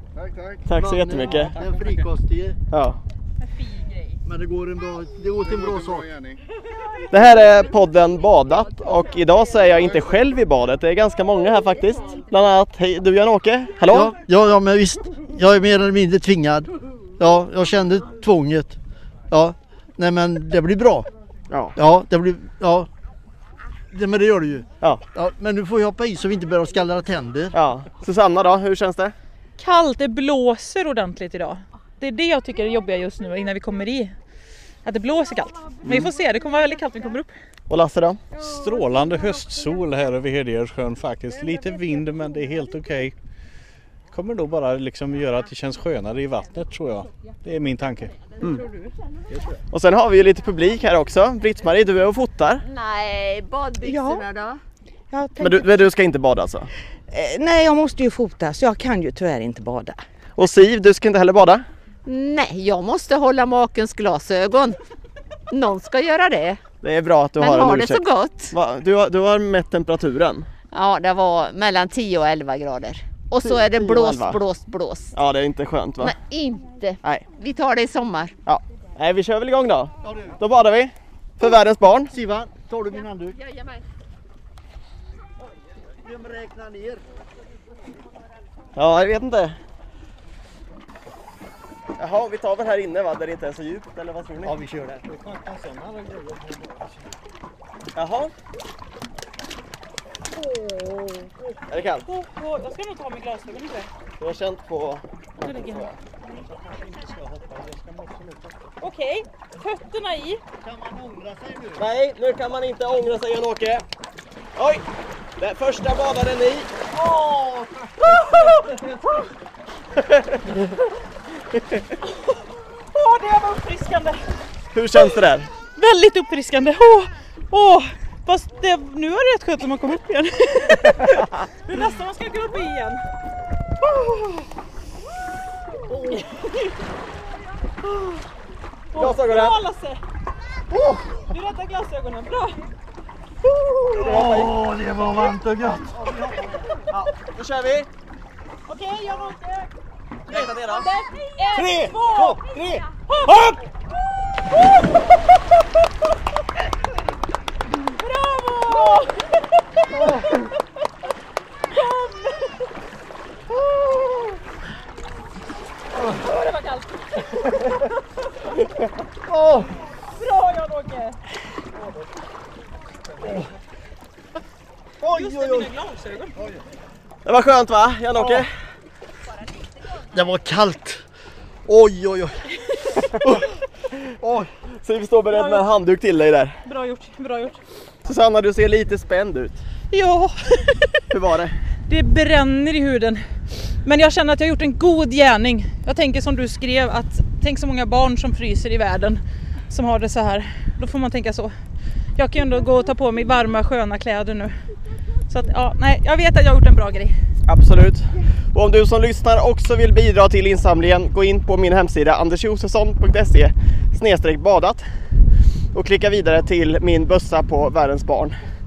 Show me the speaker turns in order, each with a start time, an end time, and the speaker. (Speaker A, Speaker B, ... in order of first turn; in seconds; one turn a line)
Speaker A: 0.7-1.6
Speaker B: 0.7-2.6
Speaker A: 2.7-3.0
Speaker C: 3.5-4.0
Speaker B: 4.2-6.2
Speaker A: 7.1-14.1
Speaker B: 13.9-18.8
Speaker B: 19.3-21.1
Speaker A: 21.5-21.8
Speaker B: 21.8-22.9
Speaker B: 23.9-27.6
Speaker A: 27.5-29.1
Speaker C: 29.6-34.1
Speaker C: 34.9-37.3
Speaker A: 35.8-36.1
Speaker A: 37.7-38.2
Speaker D: 38.4-43.1
Speaker D: 44.1-48.4
Speaker A: 49.7-52.6
Speaker E: 52.6-54.6
Speaker F: 55.1-55.4
Speaker A: 55.4-56.7
Speaker F: 57.1-60.0
Speaker A: 60.4-61.6
Speaker E: 62.1-64.8
Speaker E: 65.5-66.6
Speaker A: 66.8-70.5
Speaker E: 67.4-68.5
Speaker E: 70.7-75.1
Speaker A: 73.4-74.4
Speaker A: 75.1-76.2
Speaker E: 76.0-78.3
Speaker A: 78.5-82.1
Speaker B: 80.0-80.4
Speaker B: 82.1-83.4
Speaker B: 86.0-87.0
Speaker A: 88.8-89.6
Speaker A: 92.0-94.6
Speaker B: 94.5-95.1
Speaker D: 95.1-96.9
Speaker A: 98.0-98.3
Speaker C: 100.5-101.3
Speaker A: 101.7-102.1
Speaker C: 102.0-103.9
Speaker A: 104.2-106.0
Speaker C: 105.4-105.9
Speaker D: 106.8-108.3
Speaker B: 106.9-108.4
Speaker C: 108.8-110.4
Speaker B: 110.6-111.8
Speaker A: 111.8-113.8
Speaker A: 114.6-114.8
Speaker A: 115.4-116.7
Speaker B: 116.9-119.0
Speaker C: 118.0-118.5
Speaker A: 120.0-120.4
Speaker C: 122.0-124.2
Speaker A: 124.7-125.5
Speaker C: 125.8-133.0
Speaker C: 133.9-134.4
Speaker C: 136.1-136.7
Speaker C: 137.8-138.2
Speaker C: 138.9-140.0
Speaker A: 139.0-139.6
Speaker B: 140.7-141.3
Speaker C: 141.3-142.6
Speaker A: 143.6-144.6
Speaker B: 144.0-146.7
Speaker A: 146.9-147.9
Speaker C: 148.7-149.7
Speaker A: 150.3-150.9
Speaker C: 150.6-152.5
Speaker D: 151.6-152.8
Speaker C: 153.1-153.6
Speaker C: 157.9-159.2
Speaker C: 161.7-162.6
Speaker C: 166.0-167.3
Speaker B: 169.3-169.7
Speaker C: 170.0-171.2
Speaker B: 175.0-175.7
Speaker C: 175.1-176.4
Speaker A: 177.2-178.5
Speaker B: 178.2-178.5
Speaker B: 180.0-181.0
Speaker B: 181.7-183.5
Speaker B: 184.1-184.5
Speaker A: 184.8-186.6
Speaker C: 185.3-185.7
Speaker C: 186.6-187.6
Speaker A: 188.1-189.6
Speaker C: 189.9-191.0
Speaker A: 191.1-191.6
Speaker C: 191.9-201.5
Speaker C: 202.2-204.5
Speaker C: 205.3-207.2
Speaker A: 207.5-214.8
Speaker A: 215.7-218.4